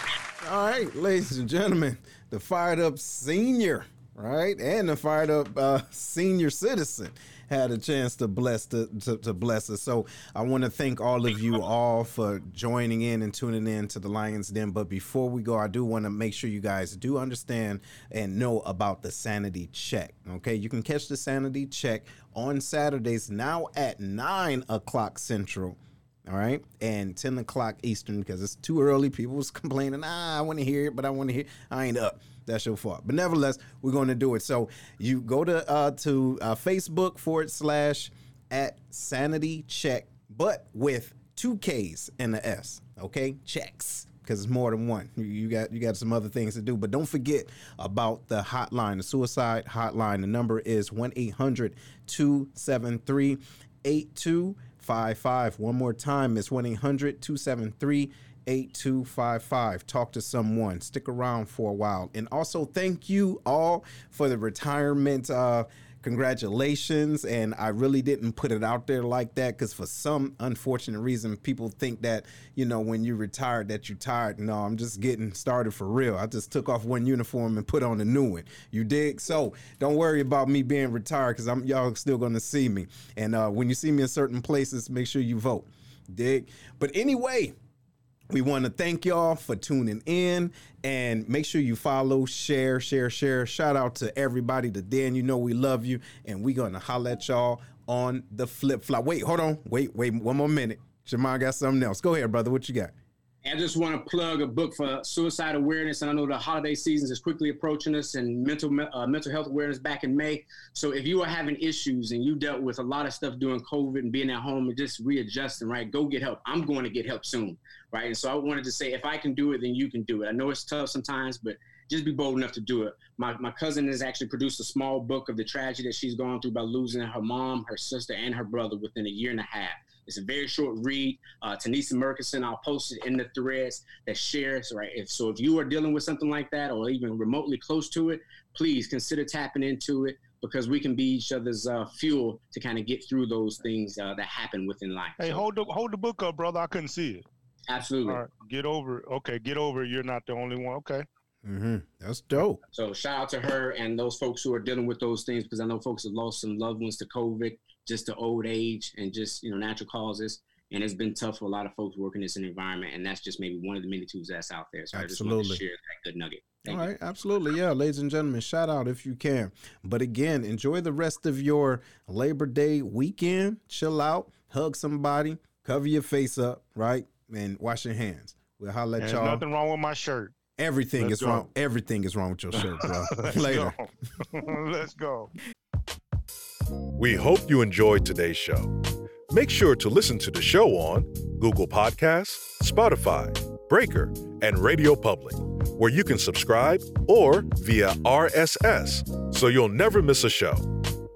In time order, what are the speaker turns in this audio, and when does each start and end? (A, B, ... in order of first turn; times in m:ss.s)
0:00.4-1:27.6 A
1:28.3-1:42.9 A
1:43.4-2:25.4 B
2:25.2-2:27.2 C
2:27.7-2:28.2 B
2:28.1-2:31.0 C
2:31.4-2:32.6 A
2:32.7-2:46.9 B
2:44.9-2:45.6 A
2:46.7-2:59.4 A
2:59.0-3:00.3 C
3:00.6-3:03.8 A
3:01.0-3:01.5 C
3:02.6-3:05.3 C
3:07.0-3:08.7 D
3:09.3-3:20.7 D